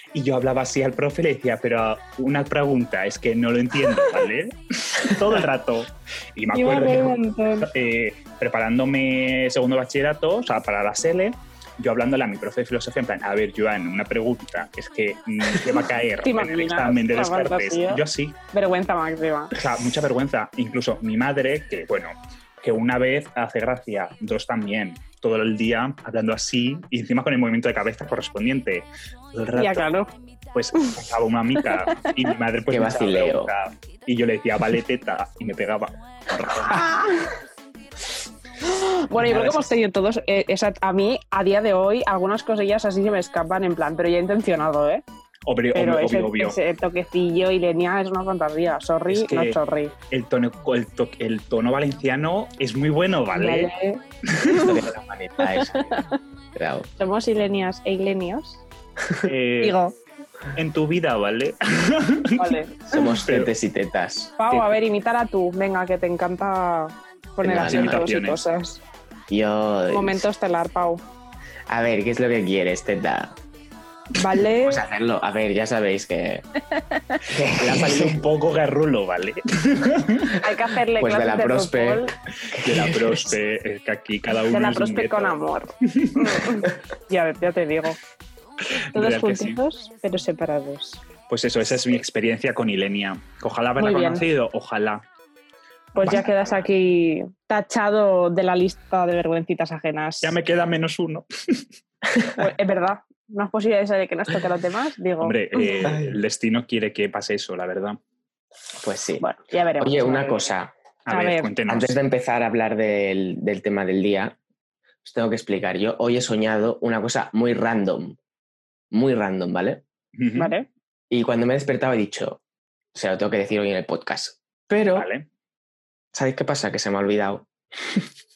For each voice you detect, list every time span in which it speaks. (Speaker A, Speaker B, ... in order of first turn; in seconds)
Speaker A: 0.1-18.4, 19.5-29.9, 30.5-37.0, 39.2-39.6, 45.5-46.6, 49.1-49.6, 50.1-53.7, 59.2-59.8, 60.5-62.5, 63.2-63.5, 64.5-64.8, 67.7-68.4, 77.5-80.4, 82.5-86.5, 88.9-89.6, 91.3-95.0, 100.2-101.7, 105.2-108.0, 111.1-112.0, 120.2-120.5, 124.9-125.3
Speaker B: 6.5-7.7, 16.2-19.5, 29.6-30.1, 31.9-32.3, 36.6-37.4, 38.6-45.0, 45.7-49.9, 53.3-54.7, 55.4-56.2, 57.0-58.6, 59.6-59.9, 62.4-63.0, 64.4-68.8, 69.9-71.0, 74.1-74.8, 76.8-77.2, 80.4-82.2, 84.5-88.0, 88.9-91.0, 93.8-94.2, 96.0-100.3, 102.4-105.7, 109.2-110.5, 111.1-111.5, 120.3-120.7
Speaker C: 32.7-33.5, 54.4-55.9, 56.5-56.9, 62.9-64.3, 67.4-68.0, 69.3-70.2, 71.7-73.4, 74.6-76.4, 77.3-78.2, 81.0-83.3, 108.8-109.2, 109.8-110.7, 111.7-114.4, 115.0-118.2, 118.9-119.8, 121.1-122.4, 122.9-125.1, 126.1-128.0